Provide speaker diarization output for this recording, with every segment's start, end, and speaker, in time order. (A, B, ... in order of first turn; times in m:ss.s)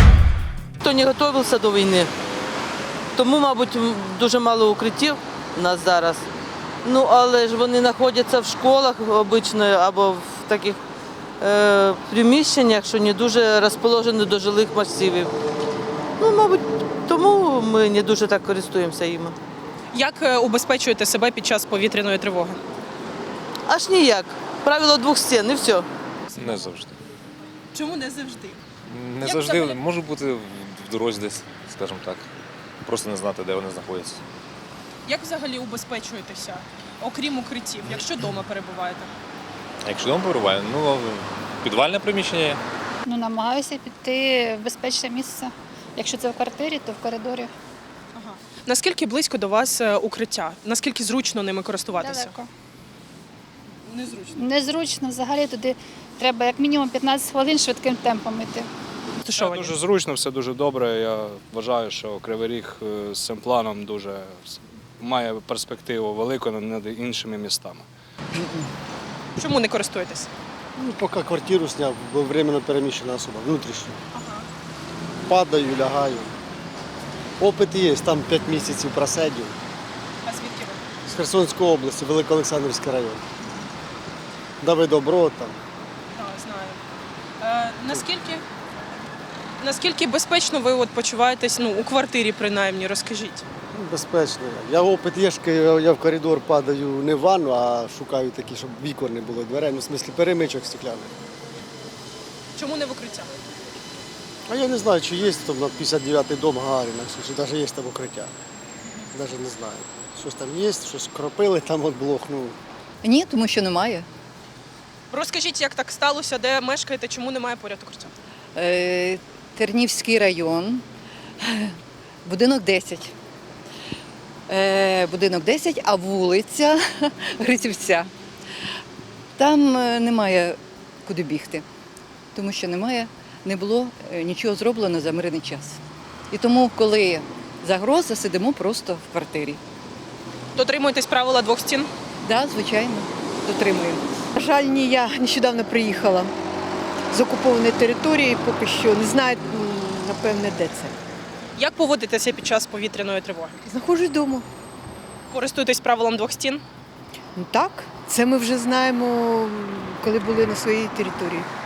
0:00.8-0:02.1 A
0:03.2-0:06.3 A
0:06.8-0:10.8 A
0:11.4-0:15.3 A
0:16.2-0:19.4 A
0:19.9-0:22.6 B
0:23.7-0:25.9 A
0:26.4-0:27.0 C
0:26.4-0:26.7 B
0:27.7-0:28.6 B
0:28.9-0:32.3 C
0:29.2-0:29.8 B
0:32.8-0:34.2 C
0:35.1-0:39.1 B
0:39.8-0:42.6 C
0:43.1-0:47.5 D
0:48.1-0:52.4 B
0:52.0-0:52.4 D
0:53.9-0:54.4 B
0:54.4-0:58.6 D
0:59.2-0:59.8 B
0:59.4-1:07.9 E
1:08.4-1:08.7 F
1:09.4-1:10.3 B
1:10.8-1:14.0 F
1:14.1-1:14.5 B
1:15.3-1:16.3 F
1:17.4-1:19.6 F
1:20.2-1:20.8 B
1:21.1-1:23.2 F
1:24.6-1:25.6 F
1:26.1-1:26.8 B
1:27.4-1:28.4 B
1:29.6-1:33.4 B
1:33.7-1:41.1 F
1:42.6-1:43.3 B
1:44.5-1:48.3 F
1:49.1-1:52.6 F
1:53.0-1:54.1 G
1:55.1-1:58.1 B
1:58.6-2:00.8 G
2:01.4-2:03.1 G
2:04.5-2:08.1 G
2:09.4-2:11.6 G
2:12.4-2:15.8 G
2:16.3-2:19.6 G
2:20.6-2:21.9 B
2:22.2-2:24.0 G
2:24.4-2:26.3 H
2:27.1-2:31.0 H
2:31.6-2:33.6 B
2:33.7-2:34.5 H
2:35.3-2:36.6 B
2:37.4-2:41.5 H